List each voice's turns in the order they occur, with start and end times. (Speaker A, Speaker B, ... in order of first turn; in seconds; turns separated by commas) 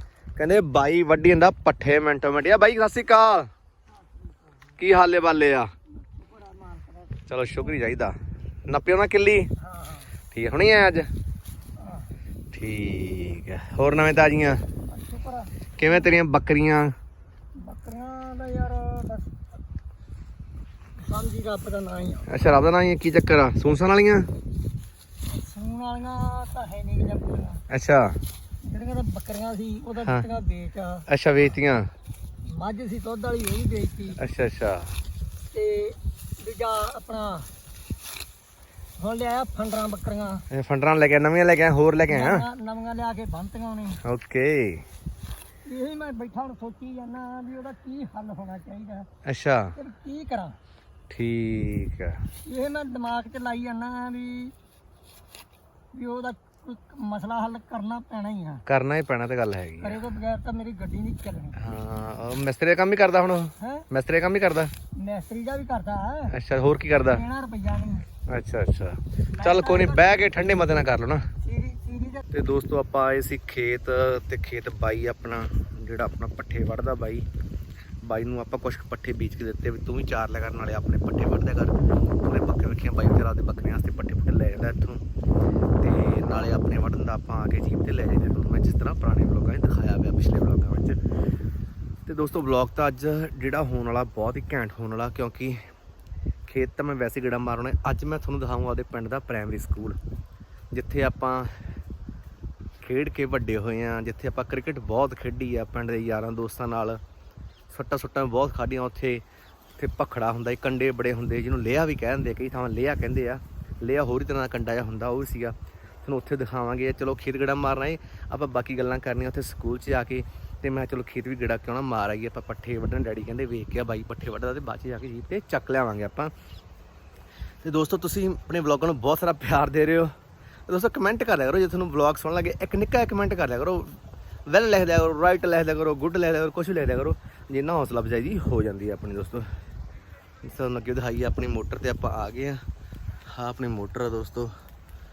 Speaker A: 0.4-3.5, Speaker A: 4.8-5.7, Speaker B: 6.2-7.2, Speaker A: 7.3-8.2, Speaker A: 8.7-9.5, Speaker B: 9.6-10.1, Speaker A: 10.3-11.1, Speaker B: 11.8-12.1, Speaker A: 12.5-14.6, Speaker B: 14.8-15.5, Speaker A: 15.8-16.9, Speaker B: 17.6-19.3, Speaker B: 21.0-22.3, Speaker A: 22.2-24.3, Speaker B: 25.3-27.6, Speaker A: 27.7-28.1, Speaker B: 28.6-31.0, Speaker A: 30.0-30.3, Speaker A: 31.1-31.9, Speaker B: 32.5-34.2, Speaker A: 34.1-34.9, Speaker B: 35.5-37.5, Speaker B: 39.0-40.4, Speaker A: 40.5-42.5, Speaker B: 42.1-44.0, Speaker A: 44.0-44.9, Speaker B: 45.6-49.1, Speaker A: 49.2-49.8, Speaker B: 49.8-50.6, Speaker A: 51.1-52.2, Speaker B: 52.5-54.5, Speaker B: 55.9-58.6, Speaker A: 58.6-60.0, Speaker B: 59.8-61.5, Speaker A: 61.5-64.7, Speaker B: 65.0-66.3, Speaker A: 66.3-67.2, Speaker B: 67.1-68.1, Speaker A: 68.3-71.2, Speaker B: 69.4-70.3, Speaker B: 71.4-72.2, Speaker A: 72.3-77.2, Speaker A: 78.0-85.0, Speaker A: 85.8-91.0, Speaker A: 92.0-95.6, Speaker A: 96.5-100.0, Speaker A: 100.7-101.5, Speaker A: 102.8-107.0, Speaker A: 107.7-109.2, Speaker A: 109.8-126.3, Speaker A: 127.6-130.1, Speaker A: 130.7-133.9, Speaker A: 134.5-139.5, Speaker A: 140.4-142.6, Speaker A: 143.3-144.5